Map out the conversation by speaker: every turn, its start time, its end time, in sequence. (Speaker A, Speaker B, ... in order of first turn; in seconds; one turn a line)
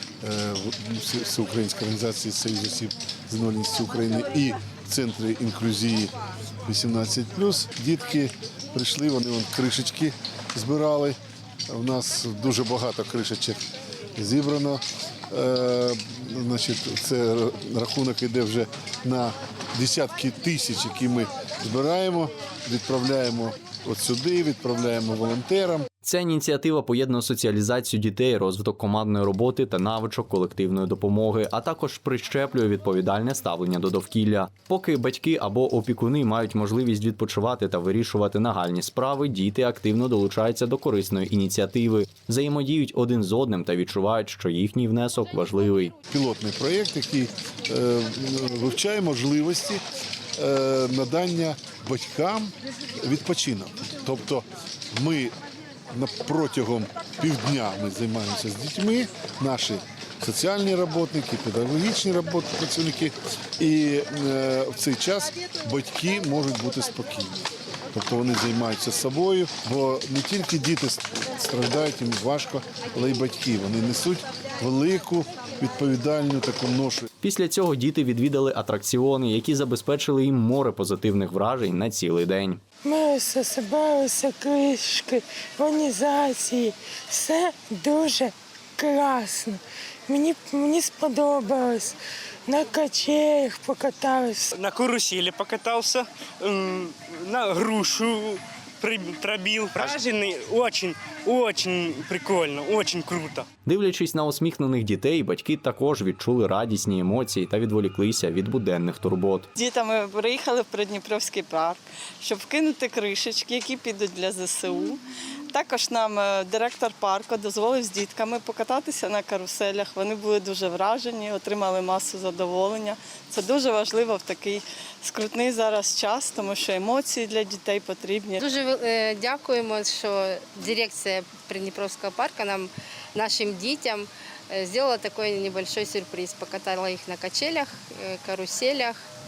Speaker A: 0.2-6.1
Speaker A: 6.7-11.2
Speaker A: 11.7-13.6
Speaker A: 14.2-25.9
Speaker B: 26.0-45.9
Speaker A: 46.1-49.8
Speaker A: 50.4-55.3
Speaker A: 55.9-77.1
Speaker B: 77.2-82.6
Speaker C: 82.8-91.9
Speaker C: 92.5-94.5
Speaker D: 94.5-103.5
Speaker B: 103.6-109.5
Speaker E: 109.5-115.0
Speaker E: 115.5-128.4
Speaker F: 128.4-139.0